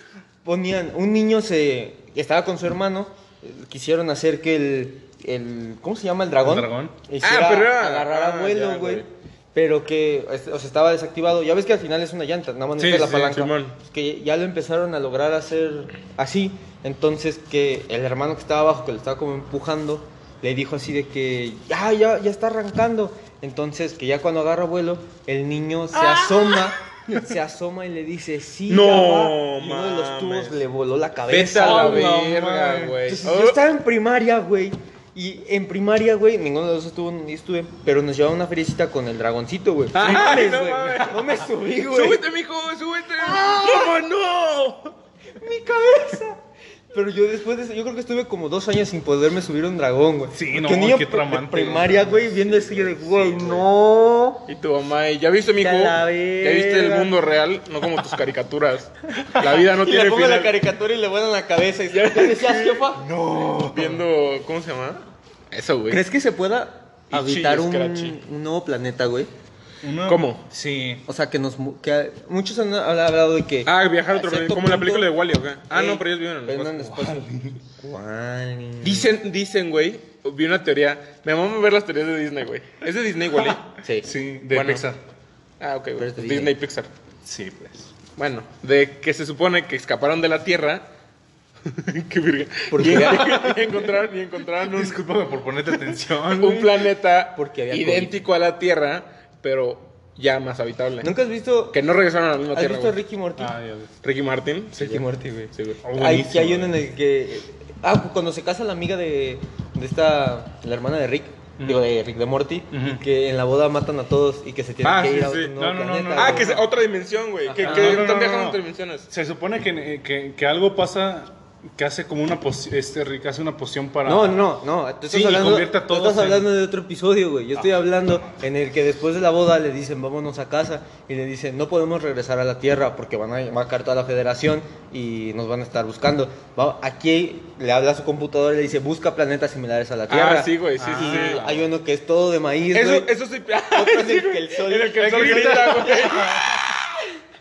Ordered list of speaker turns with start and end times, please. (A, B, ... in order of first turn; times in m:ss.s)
0:00.4-0:32.2 A
0:06.4-0:06.9 B
0:07.2-0:09.1 C
0:12.8-0:13.3 B
0:13.0-0:13.7 C
0:26.0-0:26.6 B
0:28.7-0:30.6 C
0:31.3-0:33.6 C
0:31.5-0:33.0 B
0:33.0-0:42.2 A
0:39.9-0:44.9 C
0:40.0-0:40.4 B
0:43.2-0:44.0 A
0:45.4-0:46.4 A
0:46.9-0:54.4 A
0:50.3-0:52.3 B
0:52.6-0:53.6 C
0:54.5-1:00.6 C
0:55.6-0:57.1 A
0:59.4-1:03.0 A
1:01.9-1:02.9 C
1:03.0-1:04.0 B
1:03.6-1:06.0 C
1:05.9-1:09.3 A
1:07.1-1:08.2 C
1:09.8-1:11.0 B
1:10.1-1:10.4 C
1:11.0-1:15.1 A
1:13.6-1:17.3 C
1:15.7-1:19.1 A
1:17.3-1:17.5 B
1:18.8-1:23.7 C
1:23.8-1:24.1 A
1:24.0-1:25.0 B
1:24.5-1:24.8 C
1:25.6-1:26.9 C
1:26.0-1:26.5 A
1:27.2-1:27.9 B
1:28.2-1:30.8 C
1:31.6-1:35.0 C
1:32.7-1:33.7 A
1:32.9-1:33.5 B
1:34.6-1:36.7 B
1:36.3-1:41.1 C
1:36.8-1:38.3 A
1:41.0-1:41.8 A
1:41.7-1:43.0 C
1:42.5-1:43.5 A
1:43.4-1:43.9 B
1:44.0-1:45.8 C
1:44.8-1:56.6 A
1:45.8-1:46.8 B
1:51.6-1:51.9 B
1:52.7-1:53.0 B
1:54.8-1:55.5 C
1:55.6-1:56.6 B
1:56.1-1:59.1 C
1:57.4-1:58.1 A
1:57.6-2:04.4 B
2:04.0-2:23.1 A
2:05.1-2:06.5 B
2:20.1-2:21.5 C
2:20.8-2:21.6 B
2:22.7-2:27.0 C
2:23.7-2:26.3 A
2:25.0-2:26.7 B